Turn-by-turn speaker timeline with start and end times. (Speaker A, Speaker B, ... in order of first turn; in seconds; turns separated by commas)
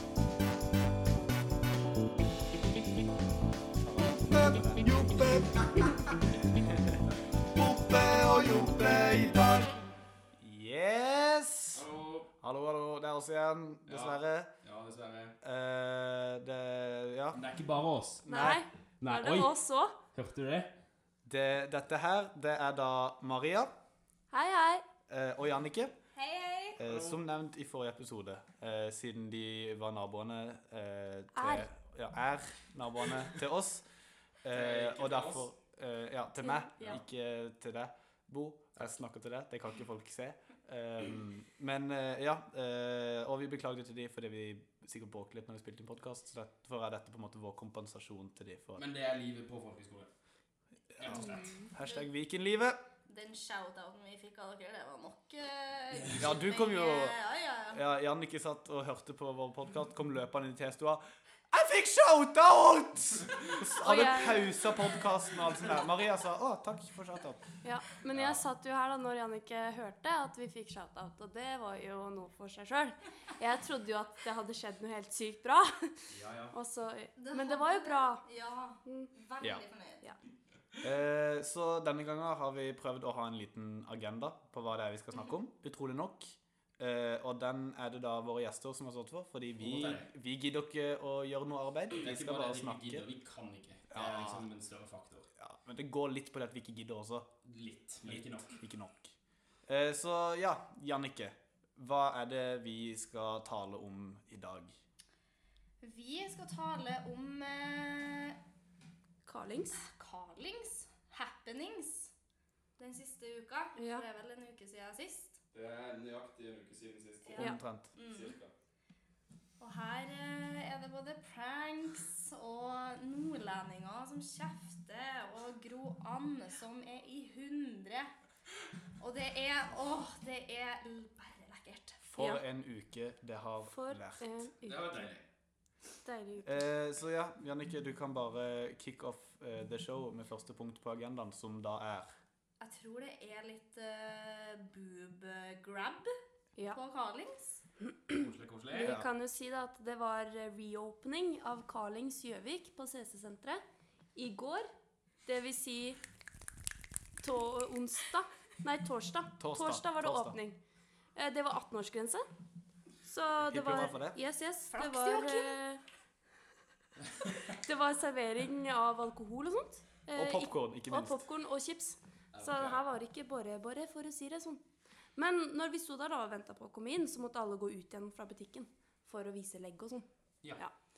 Speaker A: 3.9-7.0, Speaker B: 7.1-7.4, Speaker A: 7.5-9.7, Speaker A: 10.4-11.8, Speaker B: 11.7-12.3, Speaker A: 12.4-14.5, Speaker B: 13.9-15.3, Speaker A: 15.4-17.4, Speaker B: 17.3-18.2, Speaker A: 18.2-18.6, Speaker C: 18.3-20.0, Speaker B: 19.0-19.5, Speaker B: 20.1-20.7, Speaker A: 21.2-23.7, Speaker C: 24.3-24.8, Speaker A: 25.1-25.9, Speaker D: 26.1-26.8, Speaker A: 26.8-33.8, Speaker B: 26.9-27.2, Speaker C: 31.3-31.7, Speaker A: 34.4-48.9, Speaker B: 34.5-35.5, Speaker B: 48.8-50.1, Speaker A: 51.0-52.8, Speaker B: 51.0-51.4, Speaker D: 53.1-57.8, Speaker A: 56.2-57.2, Speaker A: 57.7-67.4, Speaker C: 63.8-64.5, Speaker C: 67.6-76.0, Speaker B: 68.1-68.4, Speaker B: 76.1-76.5, Speaker C: 76.5-78.2, Speaker D: 77.2-80.0, Speaker C: 78.8-79.1, Speaker A: 80.8-93.0, Speaker B: 89.6-90.1, Speaker B: 91.9-95.2, Speaker A: 93.9-94.5, Speaker A: 95.4-97.3, Speaker B: 97.5-98.6, Speaker A: 98.0-99.1, Speaker A: 99.7-104.8, Speaker D: 105.8-108.4, Speaker C: 109.2-109.8, Speaker D: 109.8-112.1, Speaker D: 112.8-115.4, Speaker C: 113.8-114.0, Speaker B: 115.5-117.5, Speaker D: 117.3-118.3, Speaker A: 117.4-117.9, Speaker B: 118.0-118.5, Speaker D: 119.6-128.1, Speaker D: 129.0-132.0, Speaker A: 132.0-134.5, Speaker C: 132.2-132.4, Speaker C: 133.7-135.0, Speaker B: 134.6-135.2, Speaker C: 136.0-136.7, Speaker A: 136.4-142.1, Speaker D: 142.6-146.1, Speaker D: 146.7-147.6, Speaker C: 147.9-153.6, Speaker B: 148.1-148.9, Speaker C: 154.1-154.7, Speaker C: 155.2-156.0, Speaker C: 157.2-160.6, Speaker A: 159.4-160.4, Speaker C: 161.1-162.2, Speaker C: 163.0-165.8, Speaker A: 163.5-164.2, Speaker D: 164.7-165.6, Speaker C: 167.5-174.6, Speaker A: 170.1-171.2, Speaker B: 172.3-172.8, Speaker C: 175.2-180.7